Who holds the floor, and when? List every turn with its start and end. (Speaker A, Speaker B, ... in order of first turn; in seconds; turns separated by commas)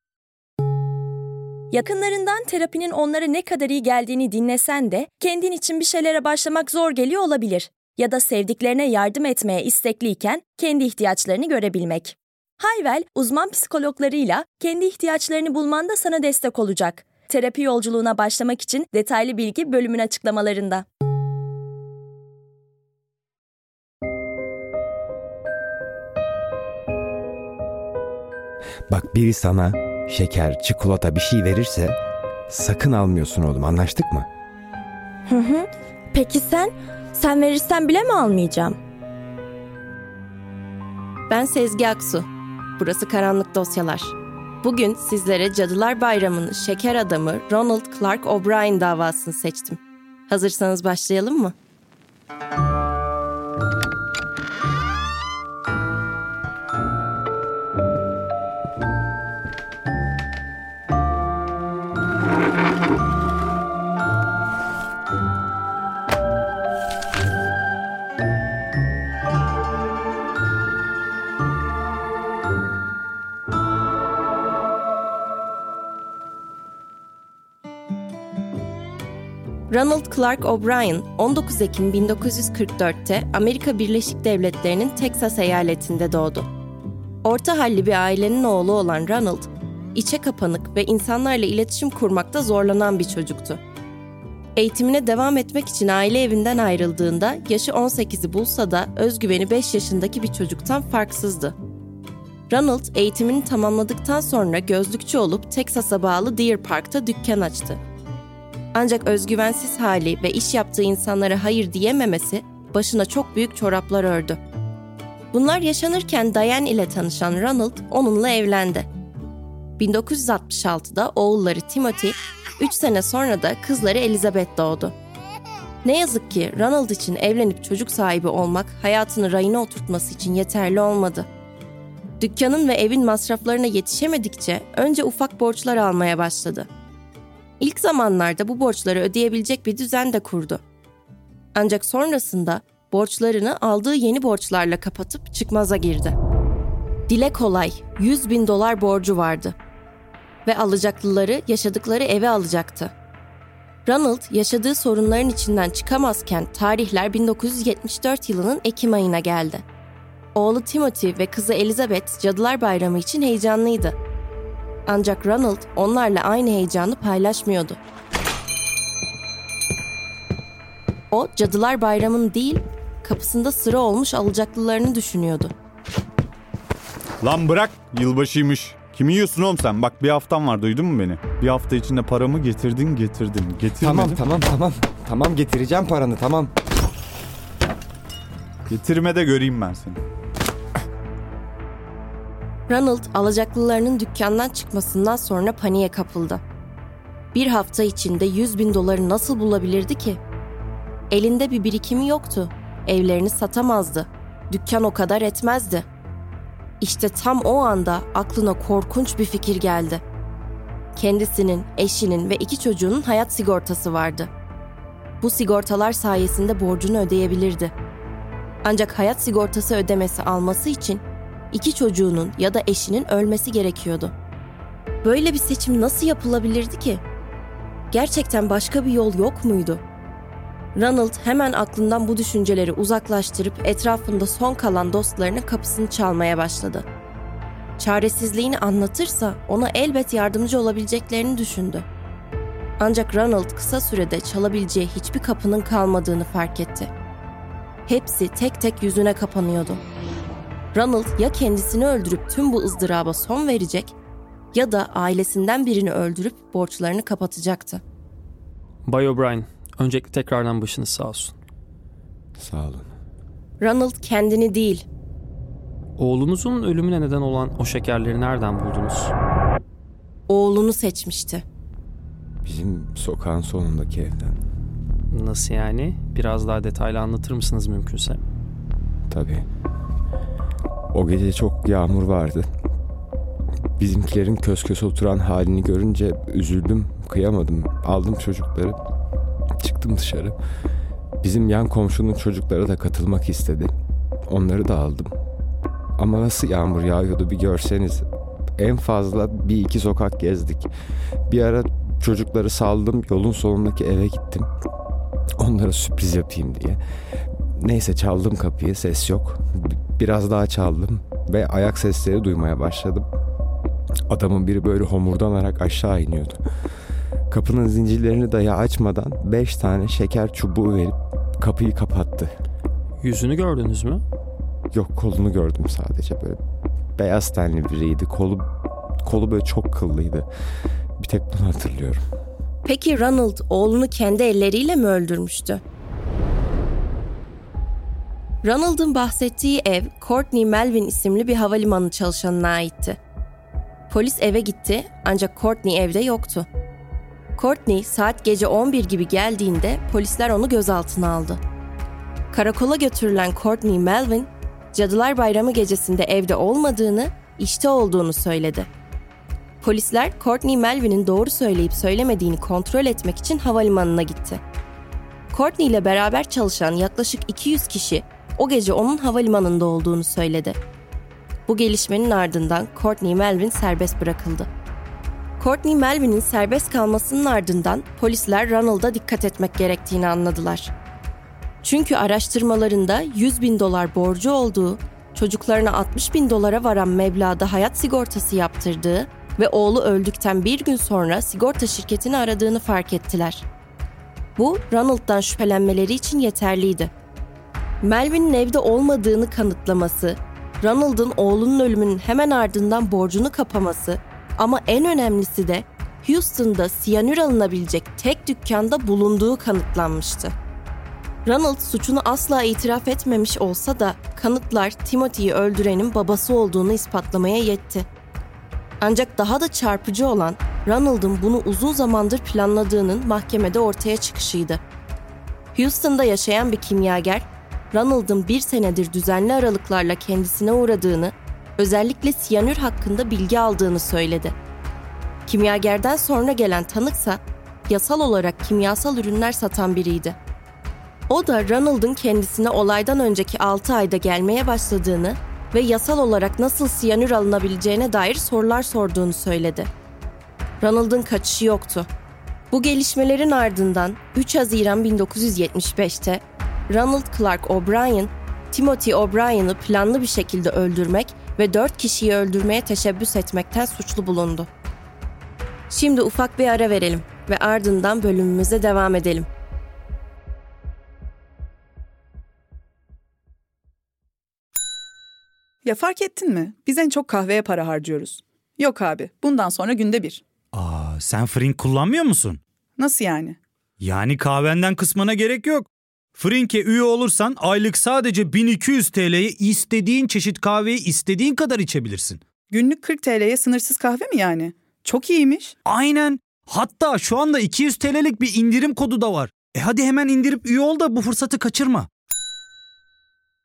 Speaker A: 1.7-20.9, Speaker B: 28.9-32.0, Speaker B: 32.5-34.3, Speaker A: 35.3-38.8, Speaker C: 41.3-42.3, Speaker C: 42.8-51.5, Speaker C: 79.7-86.5, Speaker C: 87.2-93.6, Speaker C: 94.6-101.5, Speaker C: 102.5-107.8, Speaker C: 108.7-114.4, Speaker C: 115.3-118.9, Speaker C: 119.8-125.0, Speaker C: 125.8-131.3, Speaker C: 132.2-136.7, Speaker C: 137.6-140.6, Speaker C: 141.6-146.2, Speaker C: 147.1-149.6, Speaker C: 150.4-152.9, Speaker C: 153.9-159.6, Speaker C: 160.3-164.0, Speaker C: 164.9-167.8, Speaker C: 171.1-175.5, Speaker D: 177.2-184.2, Speaker B: 183.8-186.5, Speaker D: 188.7-190.0, Speaker C: 192.7-196.4, Speaker C: 197.3-200.2, Speaker C: 201.1-205.8, Speaker C: 206.8-210.0, Speaker C: 211.0-214.3, Speaker C: 215.2-217.7, Speaker C: 218.7-224.1, Speaker C: 225.0-227.0, Speaker C: 227.9-229.8, Speaker C: 230.8-236.8, Speaker C: 237.8-241.8, Speaker C: 242.8-246.9, Speaker C: 247.9-249.8, Speaker C: 250.7-253.9, Speaker C: 254.5-257.8, Speaker E: 258.9-261.3, Speaker B: 262.4-262.9, Speaker C: 263.6-264.9, Speaker E: 266.0-269.1, Speaker C: 270.3-271.4, Speaker B: 272.4-274.4, Speaker E: 275.1-278.2, Speaker B: 279.1-279.4, Speaker B: 280.9-282.5, Speaker B: 283.8-288.8, Speaker B: 289.6-290.4, Speaker B: 291.2-293.7, Speaker B: 294.3-295.1, Speaker B: 296.0-298.1, Speaker B: 298.6-300.7, Speaker B: 301.3-304.5, Speaker B: 305.4-306.8, Speaker B: 307.5-313.1, Speaker B: 314.1-316.4, Speaker B: 317.3-322.4, Speaker E: 323.0-324.0, Speaker B: 324.7-326.4, Speaker B: 327.0-328.5, Speaker B: 329.0-330.3, Speaker B: 331.0-332.0, Speaker C: 332.6-335.6, Speaker C: 338.4-343.0, Speaker C: 343.9-346.5, Speaker C: 347.4-351.4, Speaker C: 352.3-358.7, Speaker C: 359.6-364.4, Speaker C: 365.3-370.6, Speaker C: 371.5-374.5, Speaker C: 375.4-380.7, Speaker C: 381.6-393.4, Speaker C: 394.4-396.9, Speaker C: 397.8-410.3, Speaker C: 411.2-417.9, Speaker C: 418.8-424.6, Speaker C: 425.6-434.4, Speaker C: 435.3-440.2, Speaker C: 441.1-449.7, Speaker C: 450.6-451.9, Speaker C: 452.5-464.5, Speaker C: 465.7-469.3, Speaker F: 475.6-480.2, Speaker G: 480.5-482.4, Speaker F: 482.8-483.4, Speaker G: 483.8-492.2, Speaker F: 492.5-495.6, Speaker G: 495.7-501.9